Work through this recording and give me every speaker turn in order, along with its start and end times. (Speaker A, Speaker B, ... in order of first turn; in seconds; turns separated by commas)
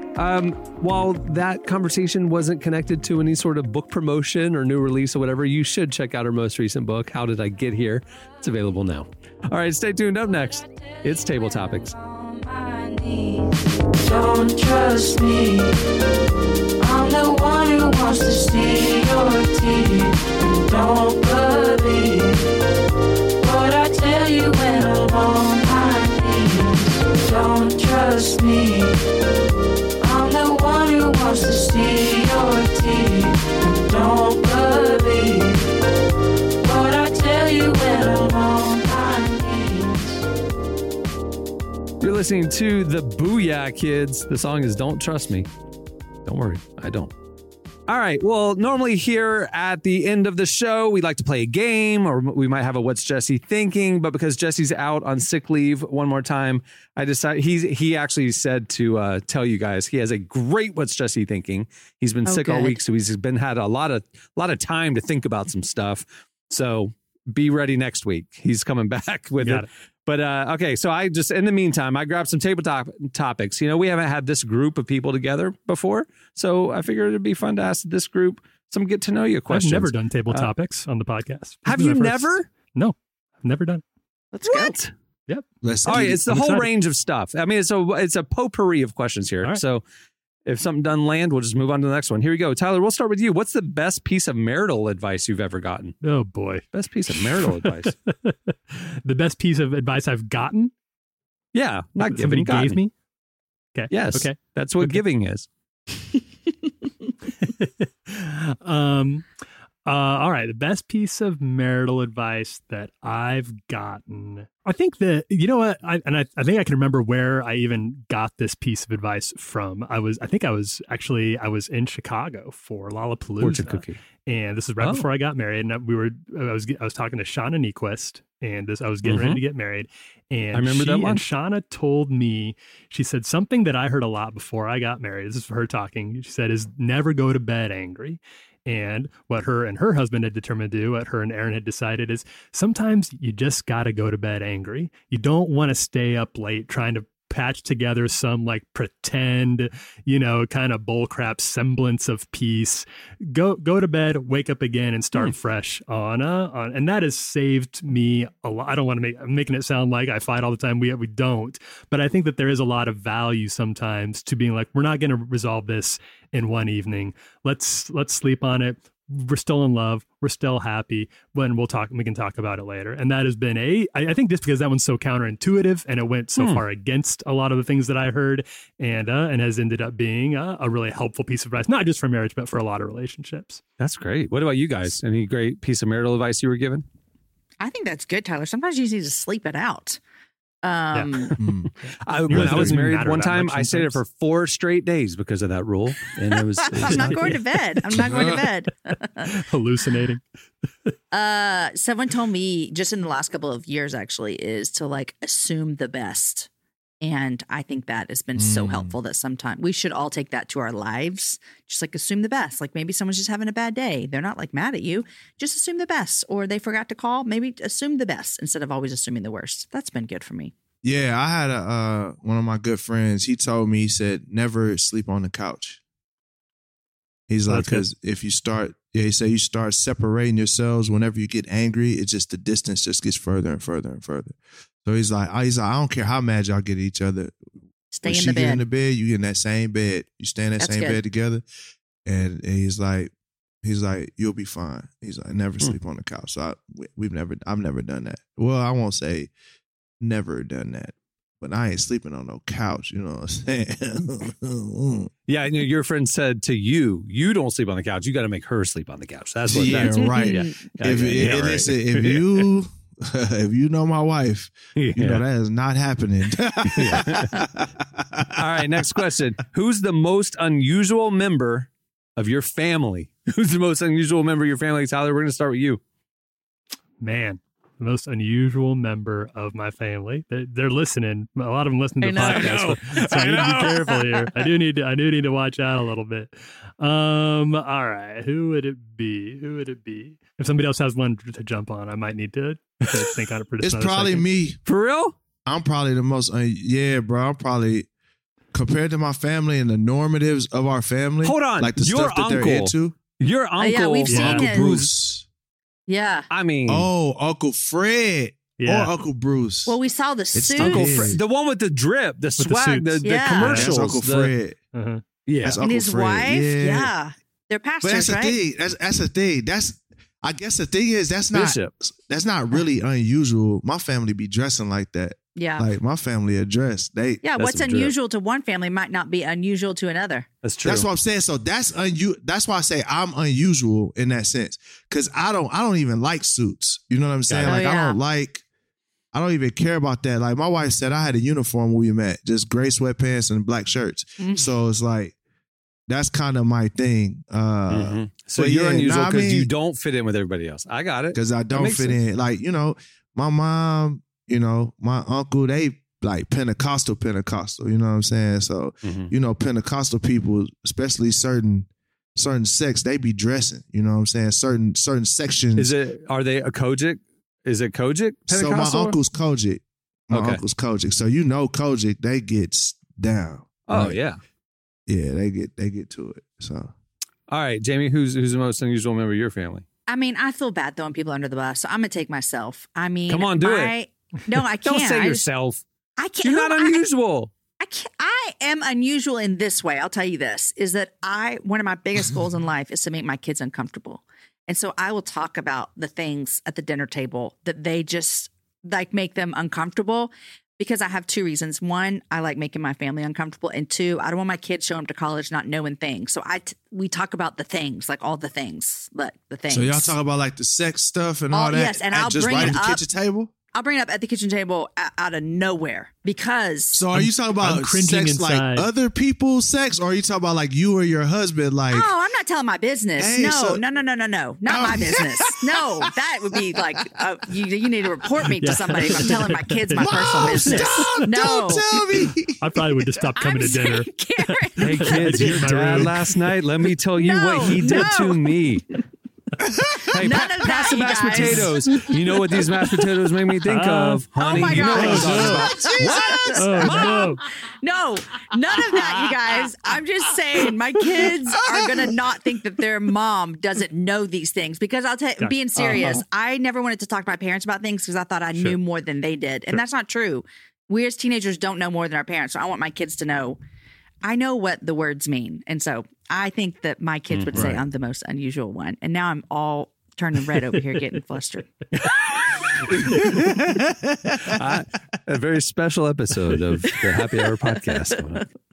Speaker A: 0.2-11.9, Speaker B: 11.1-15.8, Speaker B: 16.8-22.5, Speaker B: 23.4-29.0, Speaker B: 30.0-35.7, Speaker B: 36.6-40.2, Speaker A: 42.0-45.5, Speaker A: 46.2-47.1, Speaker A: 47.9-80.5, Speaker C: 62.2-62.8, Speaker D: 69.4-69.7, Speaker D: 79.5-83.8, Speaker A: 81.7-82.5, Speaker C: 84.3-84.8, Speaker A: 84.5-84.9, Speaker D: 85.3-86.7, Speaker E: 85.6-86.6, Speaker A: 85.9-89.8, Speaker A: 90.5-96.0, Speaker D: 96.0-100.7, Speaker A: 96.7-98.0, Speaker A: 101.5-102.8, Speaker D: 102.1-102.9, Speaker D: 103.8-105.0, Speaker A: 103.9-105.5, Speaker D: 107.4-109.2, Speaker D: 109.9-183.6, Speaker A: 123.4-124.0, Speaker A: 124.8-125.0, Speaker A: 129.0-129.4, Speaker A: 130.5-131.2, Speaker A: 183.8-186.8, Speaker C: 187.6-190.0, Speaker C: 190.6-191.4, Speaker E: 191.4-191.7, Speaker A: 192.1-197.4, Speaker D: 192.3-194.0, Speaker E: 192.3-192.8, Speaker C: 196.7-199.3, Speaker D: 196.9-197.3, Speaker E: 198.0-198.5, Speaker D: 199.2-200.2, Speaker C: 201.1-206.5, Speaker C: 207.0-220.5, Speaker E: 208.4-208.9, Speaker E: 220.8-225.8, Speaker E: 227.3-237.3, Speaker D: 227.5-227.9, Speaker C: 237.9-238.6, Speaker E: 238.1-241.4, Speaker C: 240.6-241.0, Speaker E: 242.1-243.1, Speaker E: 243.6-249.3, Speaker E: 250.0-255.1, Speaker A: 255.3-262.4, Speaker E: 259.5-268.3, Speaker C: 259.8-260.5, Speaker A: 264.8-265.2, Speaker A: 266.7-267.4, Speaker A: 268.4-275.8, Speaker D: 277.0-294.2, Speaker C: 282.0-282.7, Speaker A: 282.2-283.9, Speaker C: 283.5-283.9, Speaker E: 293.6-294.6, Speaker A: 294.7-295.1, Speaker E: 295.5-297.9, Speaker E: 298.5-303.0, Speaker A: 301.2-304.7, Speaker C: 303.6-304.9, Speaker D: 304.1-304.4, Speaker E: 304.1-305.2, Speaker C: 305.9-306.3, Speaker A: 306.3-306.9, Speaker E: 306.7-309.8, Speaker D: 308.6-308.9, Speaker C: 309.7-310.8, Speaker E: 310.3-311.2, Speaker D: 310.6-311.2, Speaker A: 310.7-314.3, Speaker D: 312.4-313.6, Speaker C: 313.0-313.6, Speaker E: 313.5-314.6, Speaker D: 314.7-315.0, Speaker A: 315.3-315.6, Speaker E: 315.4-316.9, Speaker C: 315.6-318.4, Speaker E: 317.8-327.2, Speaker A: 321.3-321.7, Speaker C: 325.4-325.7, Speaker C: 327.2-330.3, Speaker A: 327.4-327.9, Speaker A: 330.4-330.9, Speaker E: 330.6-338.4, Speaker A: 337.3-337.6, Speaker C: 337.5-338.0, Speaker E: 339.1-345.1, Speaker C: 344.2-344.5, Speaker E: 345.9-349.5, Speaker A: 347.7-352.0, Speaker E: 351.1-365.7, Speaker A: 358.8-359.1, Speaker A: 365.6-369.0, Speaker E: 368.3-374.0, Speaker A: 370.1-370.4, Speaker A: 373.7-374.2, Speaker E: 374.9-376.7, Speaker A: 377.3-379.6, Speaker C: 379.9-385.3, Speaker A: 383.1-383.8, Speaker A: 384.6-385.6, Speaker C: 386.0-386.9, Speaker A: 386.2-387.3, Speaker C: 387.6-409.9, Speaker E: 409.5-413.3, Speaker C: 411.3-412.8, Speaker C: 413.5-416.8, Speaker E: 416.7-421.9, Speaker D: 416.9-418.7, Speaker C: 421.7-431.8, Speaker E: 423.0-423.6, Speaker E: 424.5-425.6, Speaker E: 426.6-426.9, Speaker D: 428.4-431.1, Speaker E: 429.8-432.6, Speaker D: 432.4-433.9, Speaker C: 433.2-435.6, Speaker D: 434.5-436.0, Speaker A: 434.6-438.7, Speaker C: 437.0-438.5, Speaker E: 439.5-440.0, Speaker A: 439.9-446.8, Speaker C: 440.0-442.0, Speaker D: 443.5-445.5, Speaker C: 444.2-463.4, Speaker E: 444.6-447.1, Speaker D: 446.4-447.2, Speaker D: 455.2-455.7, Speaker A: 455.6-456.0, Speaker C: 464.0-471.9, Speaker A: 467.1-467.6, Speaker A: 471.8-472.9, Speaker E: 473.0-474.6, Speaker A: 474.3-478.2